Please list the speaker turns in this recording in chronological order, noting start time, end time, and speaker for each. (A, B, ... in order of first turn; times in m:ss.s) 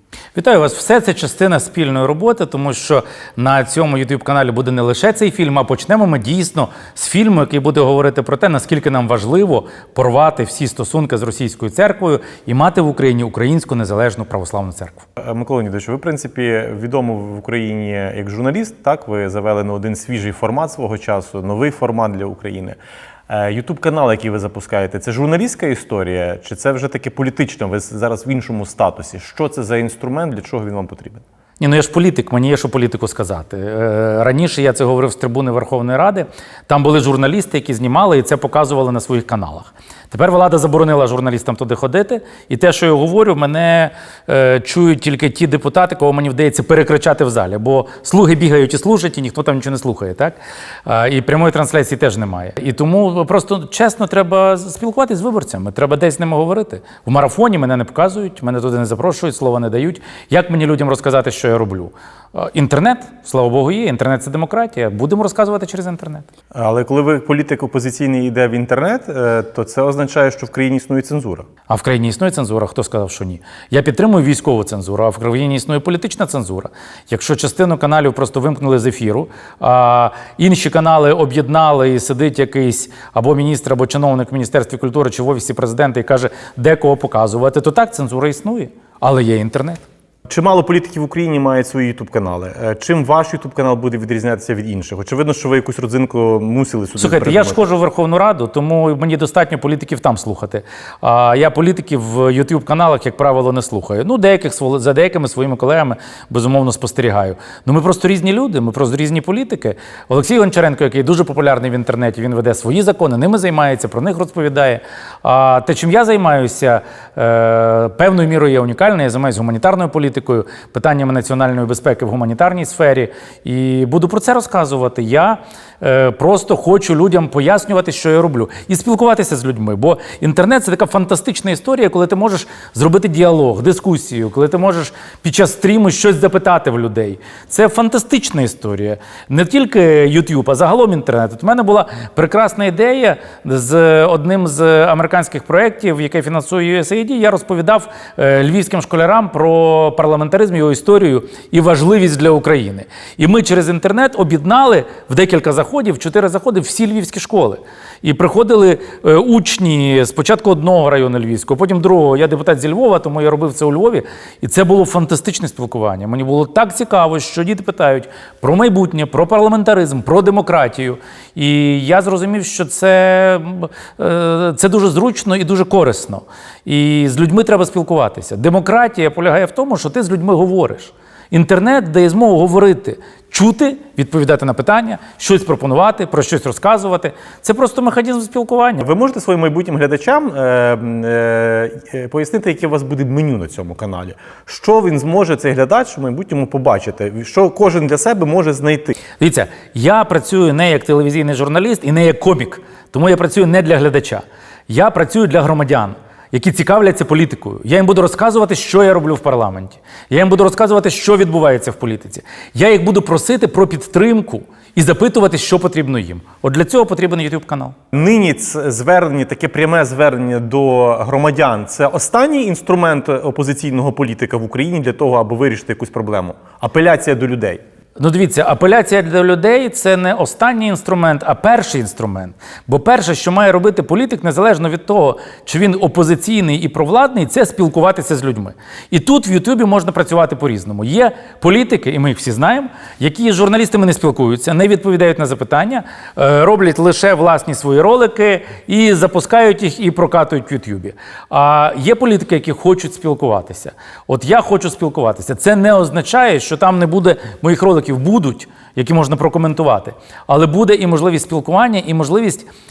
0:00.4-0:15.0 A
0:15.2-0:22.8 B
0:23.3-0:31.2 B
0:31.6-1:06.3 A
1:06.5-1:11.5 B
1:11.7-1:29.8 A
1:30.3-1:37.6 B
1:37.0-3:08.8 A
3:08.8-3:19.0 B
3:19.2-3:37.8 A
3:37.9-3:47.6 B
3:48.0-4:22.5 A